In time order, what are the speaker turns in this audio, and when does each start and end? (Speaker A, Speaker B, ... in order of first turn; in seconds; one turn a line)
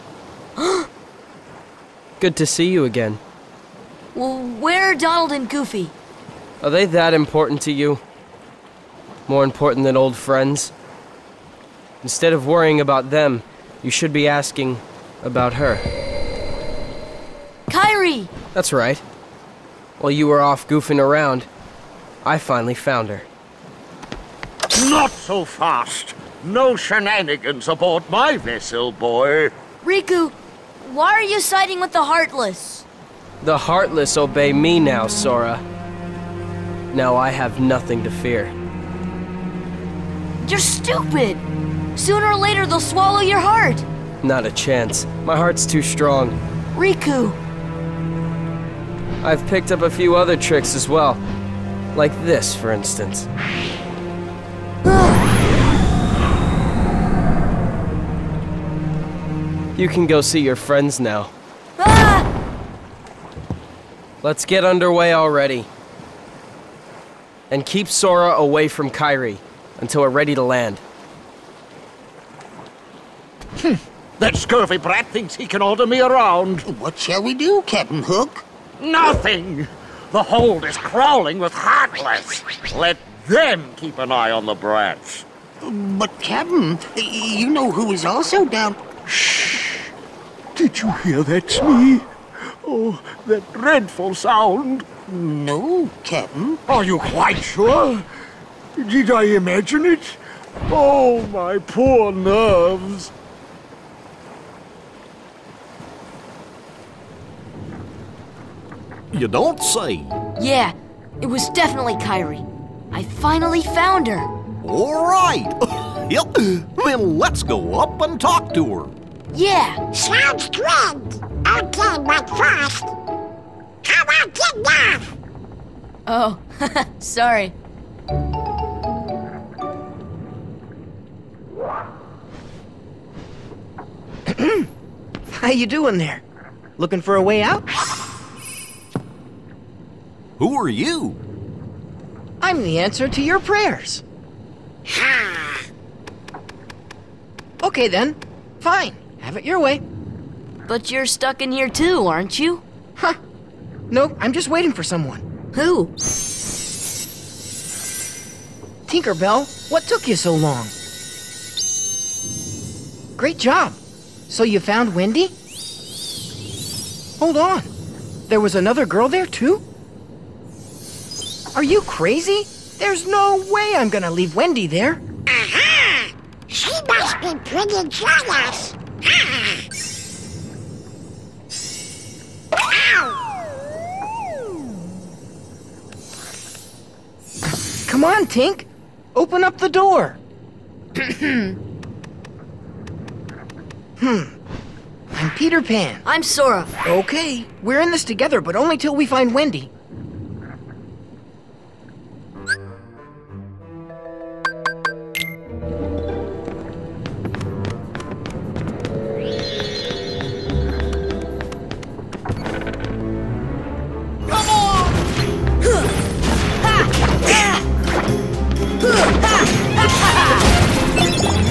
Speaker A: 0.6-0.9
Speaker B: 2.2-3.2
Speaker A: 4.1-5.9
Speaker B: 6.6-8.0
Speaker B: 9.3-10.7
Speaker B: 12.0-15.9
Speaker A: 17.7-18.3
Speaker B: 18.5-19.0
Speaker B: 20.0-21.5
Speaker B: 22.2-23.2
Speaker C: 24.7-29.5
Speaker A: 29.8-32.8
Speaker B: 33.4-35.6
Speaker B: 36.9-38.5
Speaker A: 40.4-41.4
Speaker A: 42.0-43.8
Speaker B: 44.2-46.4
Speaker A: 46.7-47.4
Speaker B: 49.2-51.2
Speaker B: 51.9-53.3
Speaker A: 54.8-55.2
Speaker B: 59.8-61.3
Speaker A: 61.8-62.3
Speaker B: 64.2-65.7
Speaker B: 67.5-70.8
Speaker C: 73.7-76.7
Speaker D: 76.7-78.4
Speaker C: 78.8-85.2
Speaker D: 85.6-88.8
Speaker C: 89.1-89.9
Speaker C: 90.5-94.9
Speaker D: 95.1-96.6
Speaker C: 96.7-98.1
Speaker C: 98.8-103.1
Speaker E: 109.1-110.2
Speaker A: 110.4-114.3
Speaker E: 114.6-118.9
Speaker A: 119.3-119.8
Speaker F: 119.9-122.9
Speaker F: 123.8-125.0
Speaker A: 126.1-127.5
Speaker G: 134.3-134.7
Speaker G: 135.3-136.2
Speaker G: 136.8-137.6
Speaker E: 140.4-141.2
Speaker G: 142.4-144.0
Speaker G: 147.6-149.8
Speaker A: 150.7-152.6
Speaker G: 153.9-155.2
Speaker A: 155.5-155.9
Speaker G: 158.9-160.7
Speaker G: 163.2-165.3
Speaker G: 167.2-167.7
Speaker G: 168.3-169.6
Speaker G: 171.5-175.0
Speaker F: 175.6-175.9
Speaker F: 176.5-178.8
Speaker G: 187.8-190.2
Speaker A: 191.0-191.4
Speaker G: 194.0-194.3
Speaker G: 195.1-196.0
Speaker A: 196.0-196.7
Speaker G: 196.8-199.7